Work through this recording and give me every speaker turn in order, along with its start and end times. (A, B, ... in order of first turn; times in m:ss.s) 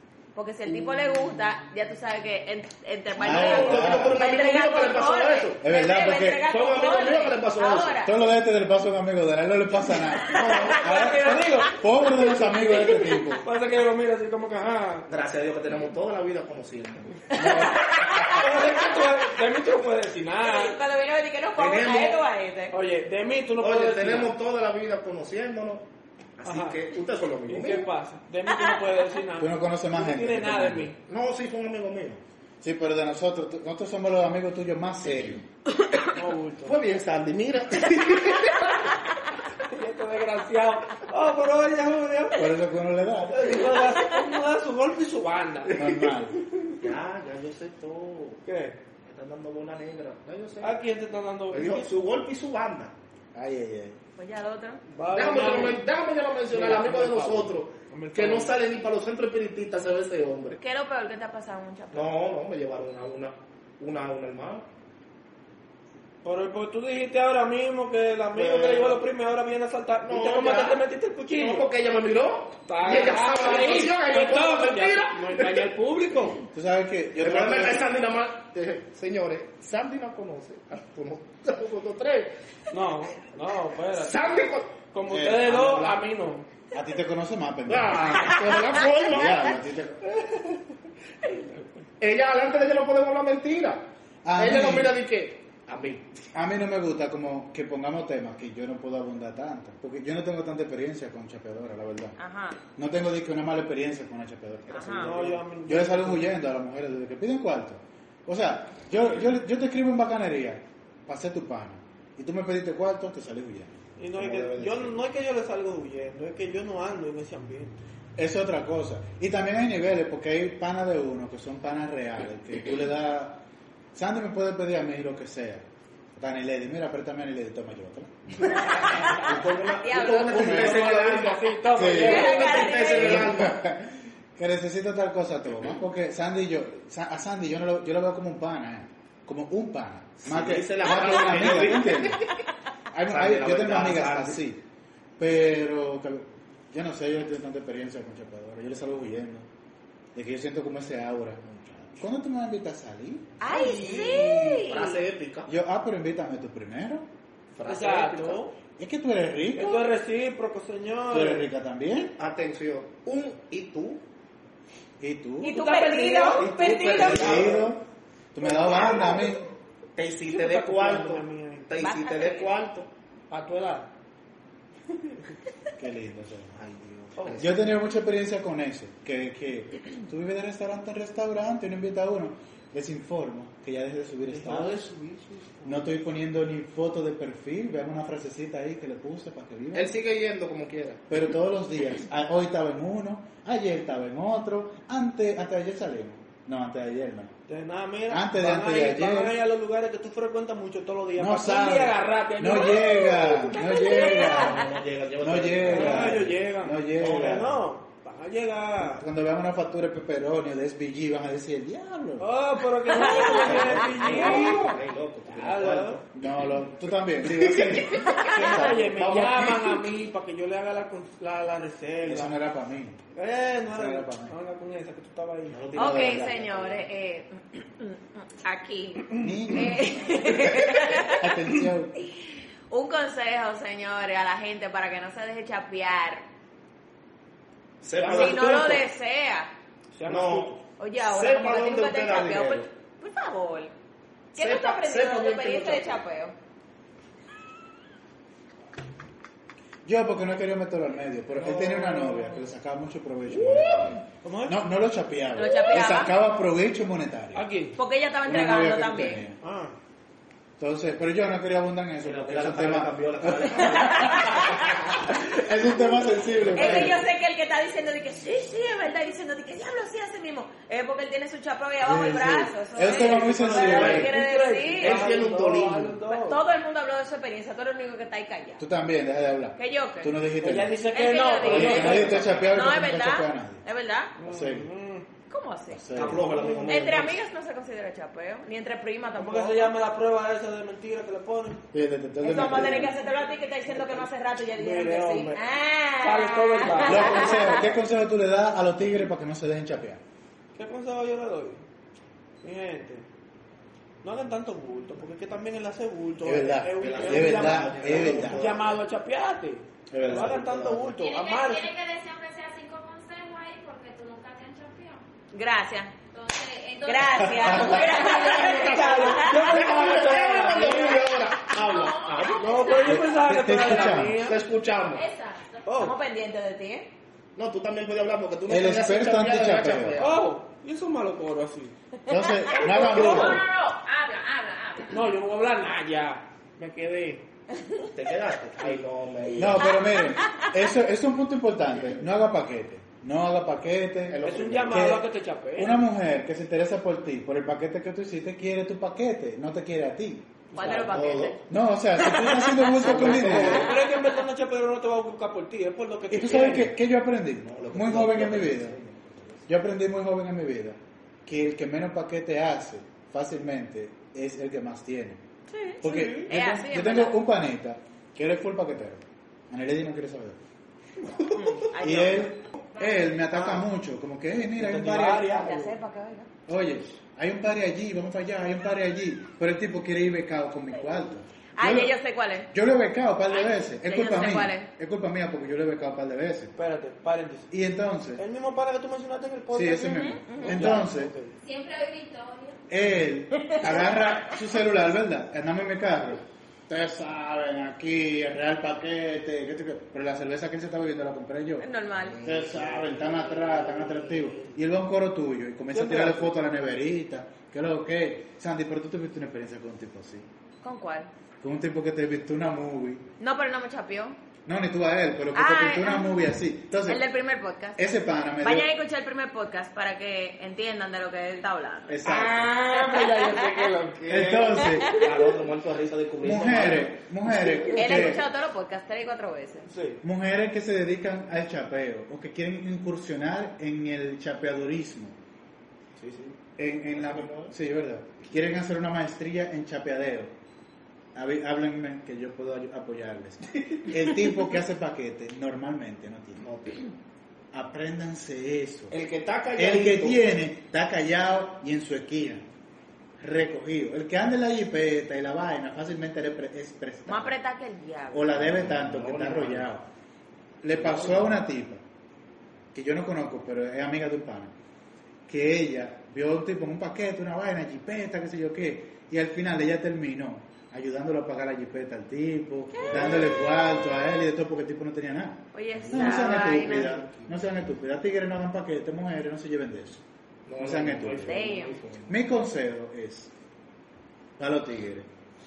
0:00.3-0:08.1 A
0:03.2-0:04.2 B
0:03.2-0:05.6 C
0:05.6-0:06.4 B
0:06.4-0:08.0 C
0:08.0-0:13.4 B
0:10.4-0:11.6 A
0:10.4-0:10.7 C
0:10.7-0:11.8 D
0:12.4-0:15.1 D
0:15.1-0:17.2 C
0:17.3-0:18.7 A
0:17.4-0:20.8 D
0:17.5-0:17.7 B
0:20.4-0:22.7 A
0:21.6-0:22.2 C
0:22.7-0:24.3 D
0:23.6-0:25.8 C
0:26.4-0:27.9 C
0:26.4-0:26.8 D
0:27.5-0:31.0 D
0:29.4-0:30.9 B
0:31.1-0:32.2 C
0:32.6-0:35.4 B
0:36.1-0:36.8 D
0:36.6-0:38.8 C
0:39.6-0:42.6 D
0:42.4-0:43.6 B
0:43.3-0:45.9 D
0:45.7-0:46.4 B
0:46.8-0:48.4 C
0:48.4-0:48.8 D
0:49.0-0:50.8 C
0:50.6-0:51.9 D
0:51.5-0:52.9 C
0:53.3-0:54.0 B
0:54.2-0:54.8 A
0:54.9-0:55.8 D
0:55.1-1:00.6 C
0:56.5-0:58.5 D
1:00.6-1:02.1 A
1:01.9-1:04.6 C
1:06.2-1:11.7 D
1:08.3-1:09.0 C
1:10.0-1:10.8 C
1:11.3-1:15.7 C
1:12.7-1:16.4 D
1:16.5-1:17.9 B
1:17.2-1:22.3 C
1:22.7-1:24.2 D
1:23.9-1:24.8 C
1:24.9-1:26.4 D
1:25.0-1:26.0 B
1:26.7-1:30.1 B
1:27.7-1:29.6 C
1:31.2-1:31.7 D
1:32.0-1:33.8 C
1:34.2-1:35.0 B
1:34.4-1:36.1 C
1:36.3-1:42.2 B
1:42.2-1:42.6 A
1:42.7-1:53.8 B
1:44.7-1:45.4 C
1:44.7-1:45.1 A
1:45.0-1:46.3 D
1:54.0-1:57.8 D
1:54.1-1:55.0 C
1:58.2-2:03.4 B
2:03.9-2:08.7 B
2:08.8-2:09.1 D
2:08.8-2:13.6 C
2:09.6-2:10.5 A
2:10.3-2:12.9 D
2:10.3-2:10.9 B
2:11.7-2:12.2 B
2:12.0-2:13.3 A
2:12.9-2:22.2 B
2:20.2-2:22.3 C
2:22.9-2:24.6 B
2:23.1-2:24.4 C
2:25.2-2:29.5 B
2:30.1-2:31.4 B
2:31.4-2:31.9 C
2:32.0-2:33.4 B
2:33.4-2:35.0 A
2:33.5-2:35.5 C
2:33.5-2:34.6 D
2:35.5-2:37.1 B
2:37.5-2:38.4 C
2:37.6-2:38.6 D
2:38.8-2:39.8 B
2:39.5-2:41.5 D
2:41.1-2:42.2 B
2:42.2-2:44.0 C
2:45.0-2:45.6 B
2:45.4-2:47.4 A
2:45.5-2:47.7 D
2:46.4-2:47.7 C
2:46.6-2:47.8 B
2:48.3-2:49.5 B
2:48.4-2:49.2 C
2:50.0-2:52.9 C
2:50.2-2:51.7 D
2:51.8-2:52.5 A
2:53.3-2:53.9 D
2:55.8-2:56.6 B
2:56.5-2:57.6 C
2:57.2-2:57.4 D
2:57.4-3:04.8 B
3:04.3-3:05.9 D
3:05.6-3:09.9 B
3:09.7-3:11.0 C
3:11.1-3:17.3 B
3:17.5-3:24.3 D
3:18.1-3:19.4 B
3:21.2-3:24.6 B
3:24.0-3:26.4 C
3:25.2-3:27.6 B
3:25.7-3:29.0 D
3:27.0-3:27.6 C
3:28.8-3:32.3 B
3:32.2-3:34.8 D
3:32.9-3:34.6 A
3:33.1-3:36.1 C
3:33.2-3:34.0 B
3:35.3-3:36.0 D
3:36.1-3:38.9 B
3:37.4-3:39.8 C
3:38.2-3:38.6 A
3:38.2-3:42.4 D
3:42.0-3:43.0 B
3:43.1-3:45.6 D
3:43.7-3:44.3 B
3:45.5-3:46.8 C
3:45.8-3:46.4 B
3:45.8-3:51.3 A
3:49.2-3:51.9 B
3:52.7-3:56.2 A
3:57.8-3:58.8 C
3:57.9-3:58.8 D
3:58.1-3:59.5 A
4:00.0-4:00.5 D
4:00.0-4:02.6 C
4:00.8-4:03.7 A
4:04.3-4:06.3 A
4:04.4-4:06.0 C
4:09.8-4:17.5 B
4:11.3-4:12.5 D
4:14.1-4:14.6 D
4:15.3-4:16.1 A
4:17.3-4:17.8 D
4:17.8-4:19.2 A
4:18.2-4:19.4 B
4:19.4-4:19.7 D
4:20.6-4:27.0 B
4:22.0-4:24.6 C
4:23.7-4:24.8 A
4:26.4-4:26.9 C
4:26.5-4:35.0 A
4:31.8-4:34.1 B
4:32.9-4:36.4 D
4:33.5-4:34.1 C
4:34.8-4:36.0 C
4:36.1-4:38.7 A
4:38.6-4:40.8 B
4:39.6-4:40.2 A
4:40.4-4:42.5 D
4:40.9-4:44.1 A
4:41.4-4:43.6 B
4:44.2-4:45.1 D
4:44.2-4:44.7 B
4:45.3-4:45.8 A
4:45.7-4:46.4 B
4:45.9-4:47.2 C
4:46.1-4:46.8 D
4:46.6-4:49.7 A
4:49.2-4:51.6 D
4:51.7-4:53.0 B
4:52.2-4:57.6 A
4:52.6-4:52.9 D
4:53.7-4:55.4 D
4:56.0-4:57.7 D
4:56.8-5:00.0 B
5:00.6-5:01.6 D
5:02.4-5:03.0 D
5:04.0-5:11.7 D
5:06.2-5:08.5 B
5:06.8-5:08.8 C
5:09.9-5:10.5 B
5:10.0-5:11.0 C
5:11.0-5:15.0 E
5:15.3-5:15.9 A
5:16.1-5:19.4 E
5:16.8-5:19.6 A
5:17.4-5:17.7 B
5:18.0-5:21.1 D
5:18.1-5:22.9 C
5:21.4-5:23.2 E
5:22.4-5:24.4 D
5:22.8-5:24.2 B
5:24.2-5:25.0 C
5:24.9-5:25.9 E
5:25.6-5:26.0 D
5:25.8-5:26.9 A
5:27.4-5:30.2 C
5:28.5-5:30.0 B
5:30.0-5:31.7 D
5:32.1-5:33.4 B
5:32.5-5:33.4 D
5:32.5-5:35.0 E
5:34.9-5:37.2 D
5:37.9-5:39.8 C
5:39.3-5:50.3 B
5:41.7-5:42.0 C
5:44.1-5:44.9 C
5:44.2-5:45.8 D
5:50.5-5:51.4 A
5:50.5-5:51.5 C
5:51.5-5:53.7 B
5:52.0-5:52.8 A
5:52.8-5:53.7 C
5:52.9-5:56.7 D
5:56.1-5:58.8 B
5:57.4-5:59.4 C
5:59.5-6:05.2 B
6:05.5-6:07.2 A
6:05.8-6:10.4 B
6:05.8-6:06.3 D
6:11.0-6:11.4 D
6:11.3-6:12.3 A
6:11.8-6:15.4 B
6:13.3-6:13.7 D
6:14.6-6:15.8 D
6:15.3-6:16.3 A
6:16.5-6:22.0 B
6:21.6-6:22.5 A
6:22.5-6:26.5 B
6:23.8-6:24.7 A
6:26.6-6:27.5 D
6:27.5-6:28.2 B
6:28.2-6:31.3 D
6:29.5-6:31.1 B
6:29.8-6:30.6 A
6:31.4-6:32.6 E
6:32.7-6:41.7 B
6:33.4-6:34.1 A
6:41.6-6:42.2 A
6:42.0-6:44.5 C
6:42.2-6:50.3 B
6:45.7-6:46.3 D
6:50.6-6:51.1 A
6:51.4-6:53.0 B
6:53.2-6:54.2 A
6:54.4-6:57.0 B
6:55.3-6:56.2 A
6:56.8-6:57.8 A
6:57.8-6:58.7 B
6:58.4-7:02.0 A
7:01.9-7:02.5 B
7:02.0-7:05.4 D
7:02.8-7:03.6 A
7:04.1-7:05.0 B
7:04.9-7:06.9 C
7:06.2-7:08.2 B
7:07.5-7:08.1 D
7:07.7-7:09.7 A
7:09.7-7:10.0 D
7:10.0-7:15.2 B
7:16.0-7:16.4 C
7:16.6-7:20.3 B
7:16.9-7:17.5 C
7:21.1-7:26.5 B
7:26.4-7:26.9 C
7:27.5-7:28.9 B
7:28.9-7:30.2 C
7:29.6-7:32.4 B
7:33.2-7:37.4 B
7:37.1-7:38.3 A
7:38.1-7:39.8 B
7:38.2-7:39.7 C
7:40.6-7:41.8 B
7:40.7-7:41.4 C
7:42.7-7:44.5 B
7:45.3-8:00.0 B
7:52.8-7:53.6 C
7:55.5-7:57.0 A
7:55.8-7:57.6 C
8:00.5-8:02.2 C
8:00.6-8:01.4 B
8:01.2-8:01.8 A
8:02.1-8:03.3 B
8:04.4-8:05.1 B